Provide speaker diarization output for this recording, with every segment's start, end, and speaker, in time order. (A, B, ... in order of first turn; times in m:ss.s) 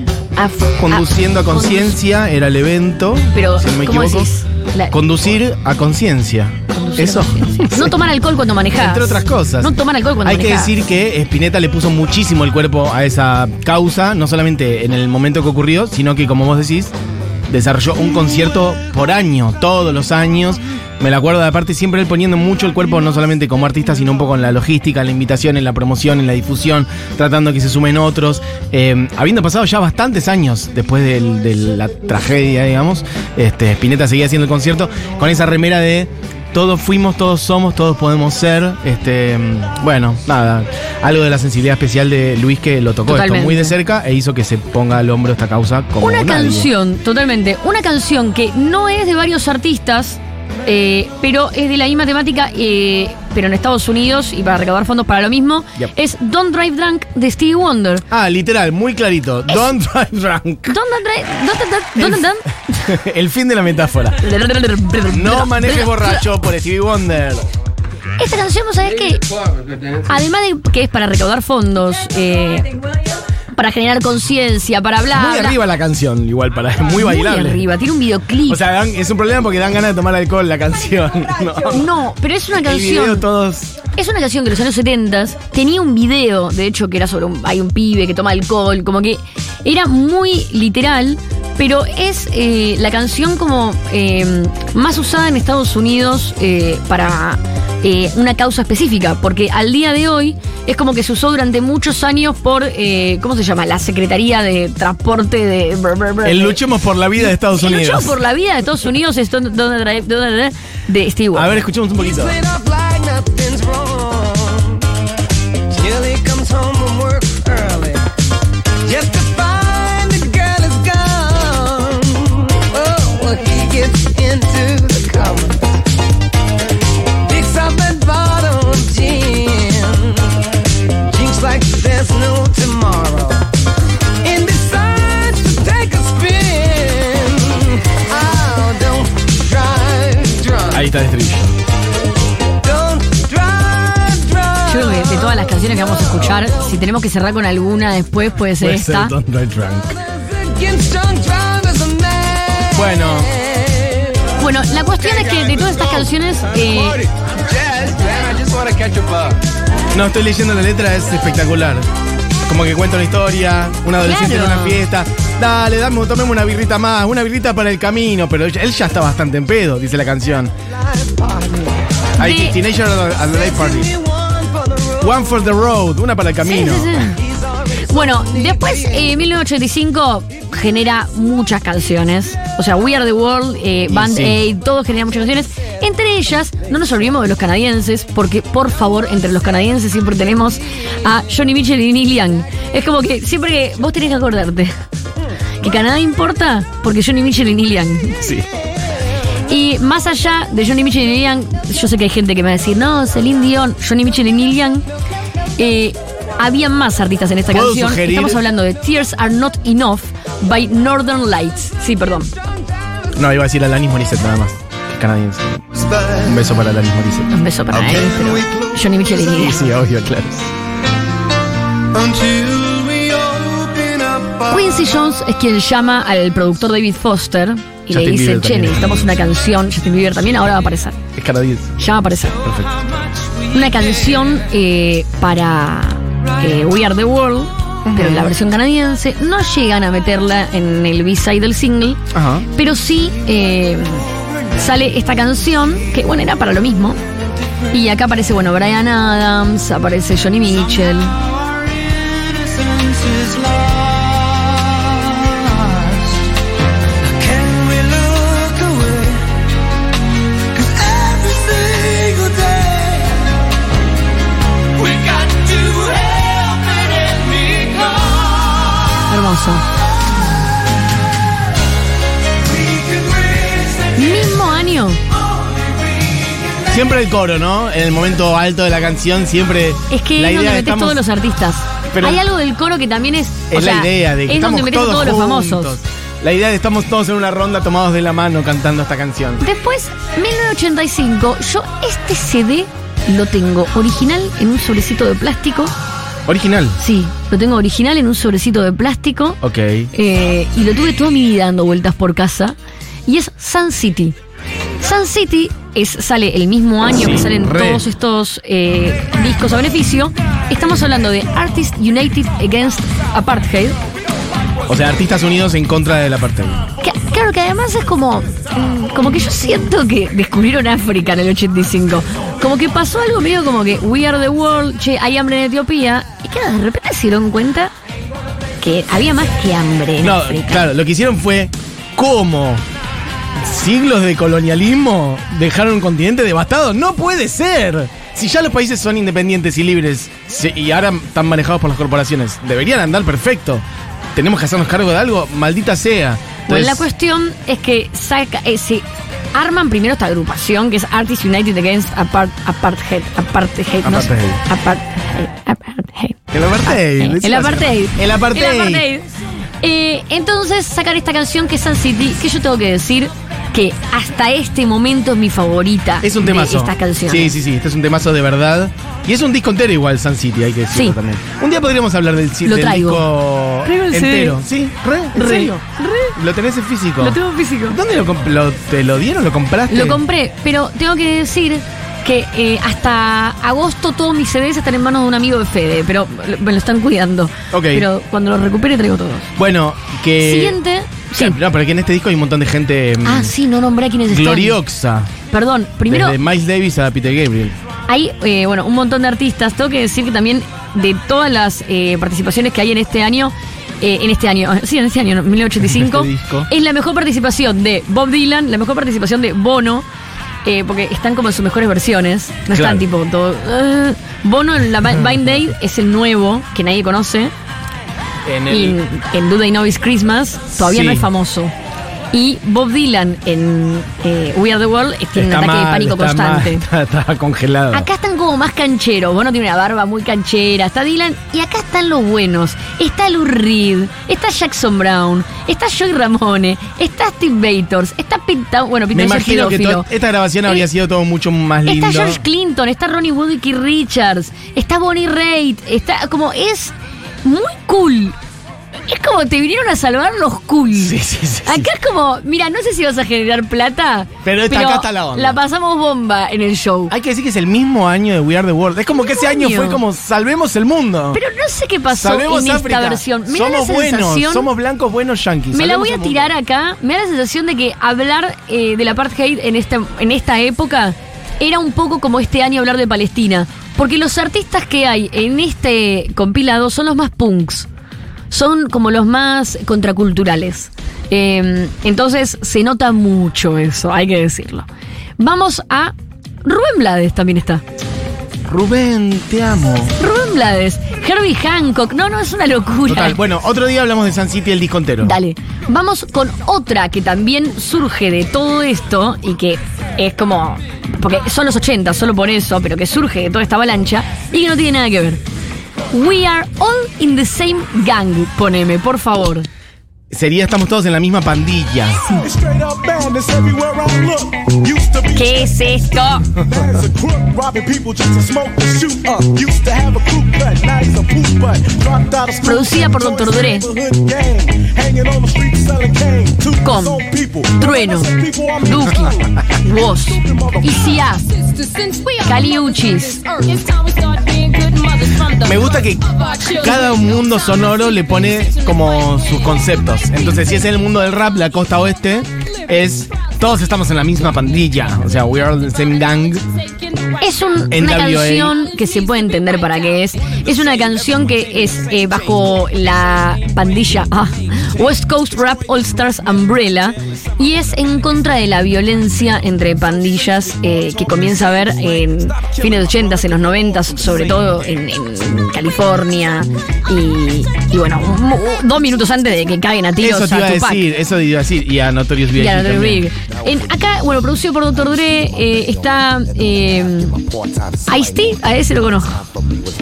0:00.4-0:02.0 A
0:00.8-0:04.3 B
0:03.3-0:05.0 A
0:04.9-0:07.9 B
0:06.7-0:10.7 A
0:08.8-0:09.7 B
0:10.2-0:16.9 B
0:17.5-0:46.7 B
0:43.1-0:43.8 A
0:46.0-0:58.0 A
0:58.1-1:00.7 B
1:00.7-1:02.5 A
1:02.0-1:04.2 B
1:04.2-1:06.2 A
1:05.1-1:07.4 B
1:08.2-1:09.2 A
1:10.1-1:12.8 A
1:13.5-1:15.6 A
1:15.1-1:17.6 B
1:17.0-1:18.6 A
1:18.5-1:21.8 B
1:21.7-1:23.3 A
1:22.6-1:23.7 B
1:24.0-1:46.6 A
1:46.2-1:48.1 B
1:47.2-1:51.6 A
1:51.3-1:52.4 B
1:52.0-1:54.8 C
1:55.7-1:58.0 C
1:58.8-2:05.8 C
2:07.2-2:10.4 C
2:11.0-2:13.4 C
2:14.2-2:20.9 C
2:20.7-2:21.5 B
2:22.6-2:25.7 C
2:24.6-2:29.1 A
2:28.6-2:30.0 B
2:30.1-2:34.3 C
2:32.7-2:33.3 B
2:34.4-2:37.0 A
2:35.1-2:39.4 D
2:39.9-2:41.8 B
2:42.5-2:50.5 B
2:44.0-2:44.8 A
2:50.7-2:51.9 C
2:52.2-2:53.9 B
2:52.2-2:52.6 A
2:53.3-2:55.3 C
2:55.0-2:57.1 B
2:56.4-2:57.2 A
2:57.3-2:57.9 C
2:57.9-3:14.7 A
2:58.4-2:58.8 C
3:03.9-3:04.4 B
3:15.6-3:18.2 A
3:18.2-3:18.4 B
3:19.5-3:24.8 A
3:25.6-3:32.3 A
3:27.5-3:28.4 B
3:33.2-3:37.3 B
3:37.3-3:39.7 A
3:39.3-3:40.5 B
3:42.0-3:43.2 C
3:42.2-3:42.8 D
3:43.8-3:44.2 C
3:44.5-3:51.0 A
3:47.9-3:49.1 B
3:51.2-3:51.7 B
3:51.8-3:52.6 A
3:52.4-3:52.7 B
3:53.5-4:02.0 A
3:57.8-3:58.3 B
4:02.1-4:02.5 B
4:02.5-4:07.0 A
4:07.7-4:11.2 A
4:12.6-4:14.6 C
4:17.0-4:19.2 C
4:20.5-4:23.1 C
4:24.8-4:28.3 C
4:29.1-4:29.6 A
4:33.9-4:35.0 A
4:36.7-4:41.0 B
4:39.9-4:45.8 A
4:41.9-4:42.2 B
4:43.5-4:49.4 B
4:49.4-4:55.7 A
4:56.3-4:56.8 B
4:56.8-4:59.4 A
4:59.4-4:59.9 B
4:59.9-5:02.6 A
5:03.1-5:04.2 A
5:04.8-5:13.8 A
5:06.9-5:07.8 B
5:14.7-5:16.6 B
5:16.8-5:27.7 A
5:28.6-5:30.6 A
5:30.0-5:32.6 B
5:33.4-5:43.6 B
5:44.2-5:46.8 B
5:46.5-5:59.1 A
5:53.8-5:54.4 B
5:56.3-5:58.8 B
5:59.6-6:07.3 A
6:06.0-6:15.6 B
6:12.4-6:13.0 A
6:13.6-6:14.4 A
6:15.1-6:16.2 A
6:16.1-6:17.2 B
6:17.0-6:17.8 A
6:17.7-6:20.0 B
6:19.7-6:29.3 A
6:27.5-6:27.9 B
6:29.4-6:30.6 B
6:30.2-6:31.4 A
6:31.1-6:33.3 B
6:33.0-6:34.6 A
6:34.1-6:35.1 B
6:35.3-6:36.2 A
6:35.9-6:37.6 B
6:37.9-6:49.8 A
6:45.6-6:46.5 B
6:50.4-6:57.3 A
6:52.5-6:52.8 B
6:58.2-6:58.8 B
6:58.5-7:01.5 A
7:00.6-7:01.1 B
7:02.1-7:06.6 A
7:05.2-7:07.9 B
7:07.7-7:19.9 A
7:18.9-7:22.2 B
7:21.6-7:28.2 A
7:28.9-7:36.9 A
7:30.7-7:31.7 B
7:34.2-7:35.4 B
7:36.9-7:41.2 B
7:38.9-7:39.8 A
7:41.1-7:44.5 A
7:41.9-7:46.3 B
7:45.5-7:57.7 A
7:58.3-8:04.6 A
8:05.2-8:07.6 A
8:08.4-8:09.9 B
8:10.0-8:13.2 A
8:12.9-8:15.2 B
8:15.0-8:25.2 A
8:25.9-8:29.5 A
8:30.1-8:32.2 B
8:32.3-8:35.0 D
8:35.1-8:36.3 A
8:36.6-8:47.4 D
8:42.4-8:43.7 A
8:46.6-8:51.2 A
8:48.2-8:48.5 D
8:52.1-8:53.6 A
8:54.3-8:55.3 A
8:55.3-9:06.4 B
9:07.2-9:30.8 A
9:07.7-9:08.5 B
9:30.0-9:33.0 B
9:32.3-9:37.2 A
9:37.8-9:39.2 A